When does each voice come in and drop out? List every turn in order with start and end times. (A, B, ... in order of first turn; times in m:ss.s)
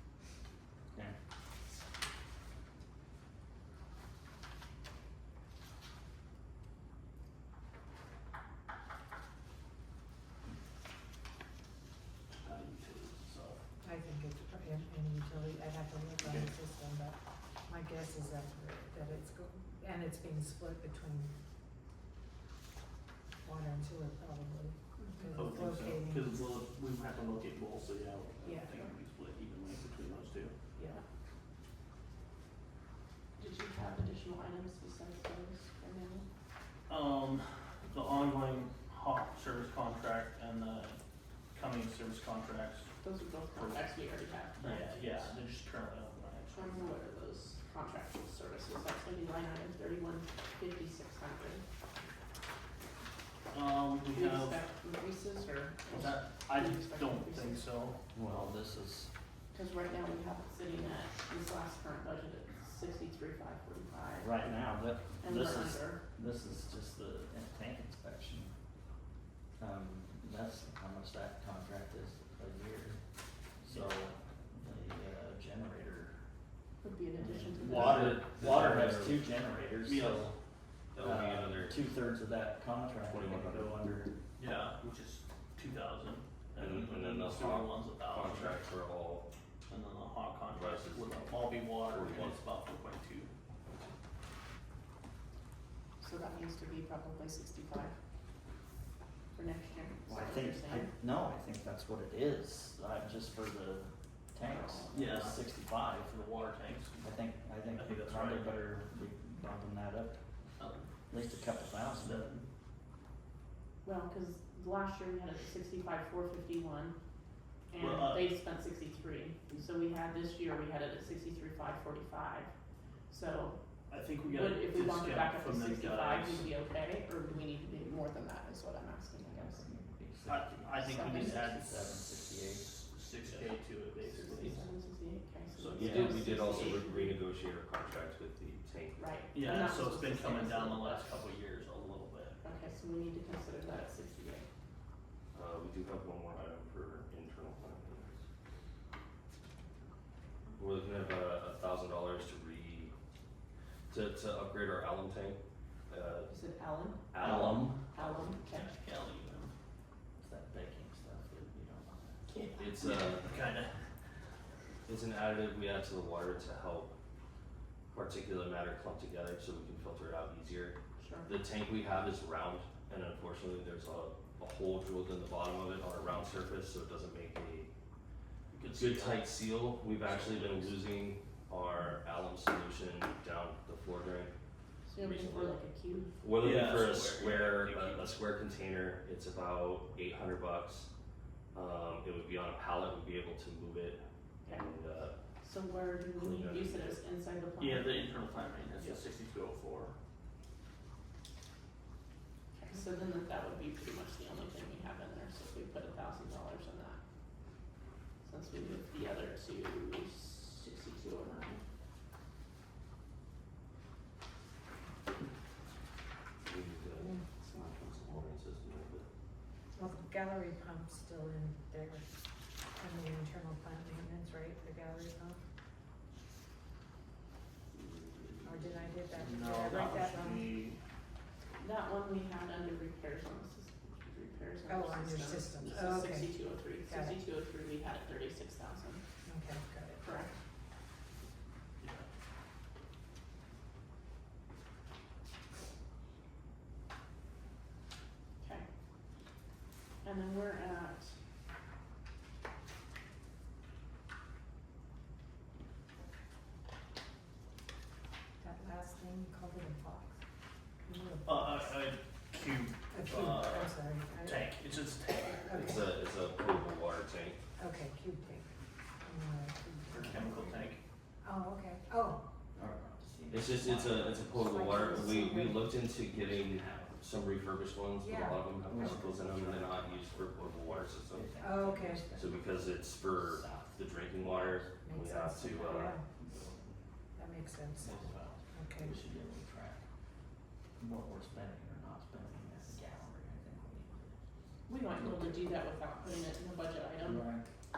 0:12.4-0:13.6 A
0:13.8-0:17.2 B
0:16.2-0:16.5 A
0:17.7-0:21.3 B
0:23.4-0:26.4 B
0:25.0-0:25.5 C
0:25.3-0:30.5 A
0:28.4-0:28.9 C
0:30.8-0:31.0 C
0:33.4-0:36.3 C
0:36.9-0:41.0 A
0:41.5-0:42.9 A
0:43.0-0:45.3 C
0:44.6-0:46.9 A
0:46.5-0:51.6 C
0:53.5-0:54.6 A
0:54.1-0:57.7 C
0:55.9-0:58.0 A
0:58.1-0:59.1 D
0:59.5-1:04.3 C
1:04.2-1:08.5 D
1:05.2-1:06.0 C
1:09.6-1:13.0 D
1:13.6-1:16.2 D
1:16.8-1:18.2 C
1:17.2-1:20.4 D
1:17.6-1:19.2 E
1:17.7-1:18.9 A
1:19.8-1:20.3 A
1:20.9-1:21.8 E
1:21.0-1:24.2 D
1:23.0-1:23.8 E
1:24.4-1:28.6 A
1:26.6-1:29.3 E
1:29.7-1:33.3 A
1:30.5-1:32.4 E
1:36.0-1:38.0 C
1:39.3-1:40.9 C
1:40.1-1:46.2 D
1:44.4-1:44.9 C
1:44.9-1:47.0 A
1:47.0-1:50.2 D
1:47.7-1:48.6 A
1:50.6-1:50.9 A
1:51.1-1:52.4 D
1:52.1-1:52.4 A
1:53.8-1:57.0 C
1:57.7-2:02.5 C
1:57.7-1:58.4 A
2:03.1-2:03.6 C
2:03.9-2:06.5 A
2:04.2-2:09.6 C
2:09.2-2:12.7 D
2:10.3-2:11.7 A
2:10.9-2:11.5 C
2:12.5-2:14.6 A
2:14.1-2:17.2 C
2:15.5-2:16.3 A
2:15.8-2:19.2 E
2:19.0-2:21.2 C
2:19.3-2:22.4 A
2:22.4-2:24.4 C
2:25.3-2:28.2 E
2:30.6-2:32.9 E
2:33.9-2:36.3 E
2:36.3-2:37.1 C
2:37.1-2:38.3 E
2:37.2-2:37.8 D
2:37.9-2:38.7 C
2:38.4-2:39.5 A
2:40.2-2:42.2 D
2:42.3-2:43.0 C
2:42.6-2:43.3 E
2:42.8-2:43.9 A
2:44.8-2:46.9 E
2:47.9-2:57.7 E
2:51.0-2:51.3 C
2:58.5-2:59.3 A
2:58.7-3:04.3 E
2:59.9-3:00.8 A
3:04.9-3:06.1 C
3:05.0-3:05.5 E
3:06.2-3:10.9 E
3:06.4-3:08.2 A
3:11.5-3:15.2 E
3:14.4-3:14.7 C
3:15.4-3:18.0 C
3:16.2-3:17.0 E
3:17.6-3:19.9 A
3:22.5-3:27.0 C
3:28.2-3:31.6 C
3:36.4-3:39.1 E
3:39.7-3:42.1 B
3:42.7-3:45.4 B
3:47.7-3:50.8 A
3:48.4-3:50.6 B
3:51.6-3:59.0 C
3:54.7-3:57.2 B
3:59.2-4:00.1 B
4:00.0-4:00.3 C
4:01.8-4:02.0 A
4:08.4-4:08.6 C
4:10.0-4:11.1 C
4:18.4-4:20.2 B
4:20.8-4:21.8 B
4:21.2-4:25.7 A
4:22.9-4:24.4 B
4:25.5-4:25.9 B
4:25.5-4:27.4 E
4:27.6-4:30.3 B
4:29.9-4:30.8 A
4:30.0-4:30.6 D
4:31.2-4:32.2 B
4:32.6-4:35.4 D
4:33.3-4:41.3 E
4:34.5-4:35.6 B
4:35.9-4:37.0 D
4:38.0-4:39.0 B
4:38.6-4:44.6 D
4:41.4-4:42.0 B
4:42.2-4:46.0 E
4:44.8-4:46.0 B
4:46.1-4:46.9 D
4:47.2-4:49.0 B
4:47.8-4:49.8 D
4:50.8-4:54.2 D
4:54.7-4:57.2 C
4:55.0-4:55.4 A
4:57.0-4:57.5 D